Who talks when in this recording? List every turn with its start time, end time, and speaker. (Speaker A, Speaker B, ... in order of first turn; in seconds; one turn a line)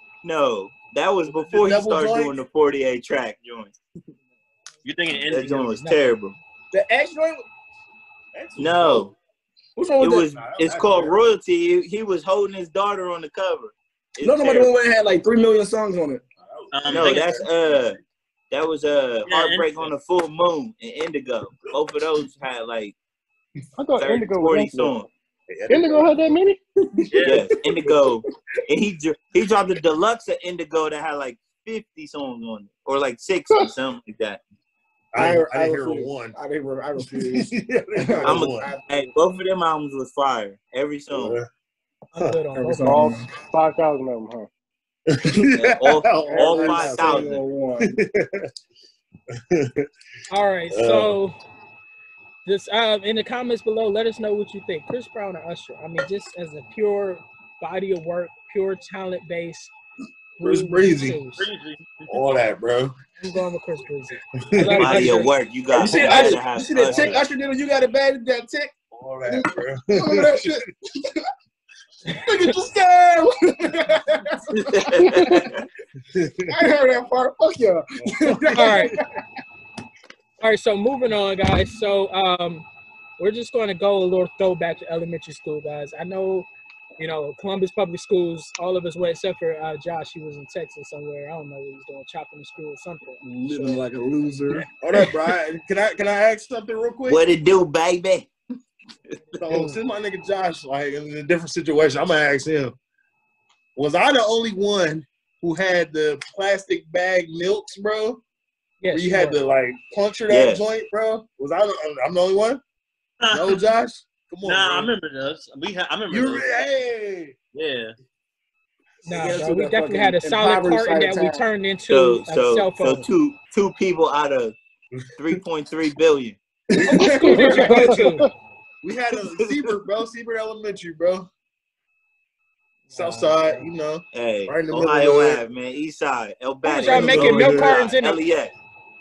Speaker A: 0.2-3.7
Speaker B: 1.5-2.4
Speaker C: 4.8-5.7
Speaker A: 5.3-6.4
Speaker D: 5.8-6.2
Speaker E: 6.7-7.5
Speaker B: 8.3-9.1
Speaker A: 8.6-9.1
Speaker E: 9.8-10.3
Speaker A: 10.0-14.7
Speaker B: 10.3-11.2
Speaker E: 14.2-16.2
Speaker B: 16.4-17.9
Speaker C: 16.7-17.4
Speaker A: 16.9-18.0
Speaker A: 18.5-23.0
Speaker C: 19.3-19.9
Speaker F: 23.8-25.1
Speaker A: 24.0-25.1
Speaker B: 25.5-26.2
Speaker F: 25.7-26.6
Speaker E: 27.0-27.3
Speaker C: 27.1-27.5
Speaker A: 27.2-34.4
Speaker B: 35.1-36.4
Speaker E: 35.1-39.1
Speaker B: 37.0-38.7
Speaker A: 38.2-41.4
Speaker B: 41.1-41.5
Speaker D: 42.1-43.1
Speaker E: 42.5-43.3
Speaker F: 42.8-44.5
Speaker B: 45.1-48.5
Speaker A: 45.5-47.4
Speaker E: 46.3-47.9
Speaker B: 49.4-49.9
Speaker D: 50.3-51.4
Speaker B: 50.7-51.2
Speaker D: 52.5-59.7
Speaker D: 60.4-61.5
Speaker B: 60.4-61.2
Speaker C: 61.4-62.2
Speaker B: 62.1-62.9
Speaker D: 63.2-65.3
Speaker B: 64.4-65.1
Speaker E: 64.7-65.0
Speaker A: 64.8-67.2
Speaker E: 65.7-68.8
Speaker D: 66.0-66.3
Speaker B: 66.9-67.2
Speaker B: 68.9-70.6
Speaker E: 69.3-71.3
Speaker D: 72.1-72.5
Speaker E: 72.1-75.6
Speaker A: 74.5-75.6
Speaker B: 76.1-76.6
Speaker E: 76.5-79.1
Speaker B: 78.0-79.0
Speaker D: 78.5-79.0
Speaker D: 80.4-82.7
Speaker D: 83.2-93.2
Speaker E: 93.2-94.7
Speaker B: 93.5-93.8
Speaker B: 94.7-97.2
Speaker A: 97.1-98.3
Speaker B: 99.4-102.8
Speaker D: 99.5-99.8
Speaker B: 103.8-108.2
Speaker D: 108.8-109.4
Speaker B: 108.9-112.6
Speaker A: 110.3-110.6
Speaker C: 113.2-113.7
Speaker B: 113.3-114.9
Speaker C: 114.4-116.6
Speaker B: 116.1-117.4
Speaker C: 117.5-117.9
Speaker D: 119.0-123.1
Speaker E: 119.1-121.4
Speaker A: 121.9-124.5
Speaker A: 125.2-126.4
Speaker D: 126.8-128.3
Speaker E: 126.9-128.1
Speaker F: 127.5-128.2
Speaker B: 128.8-131.3
Speaker D: 132.9-133.7
Speaker B: 132.9-135.4
Speaker A: 134.1-138.5
Speaker D: 136.6-138.2
Speaker B: 136.8-137.8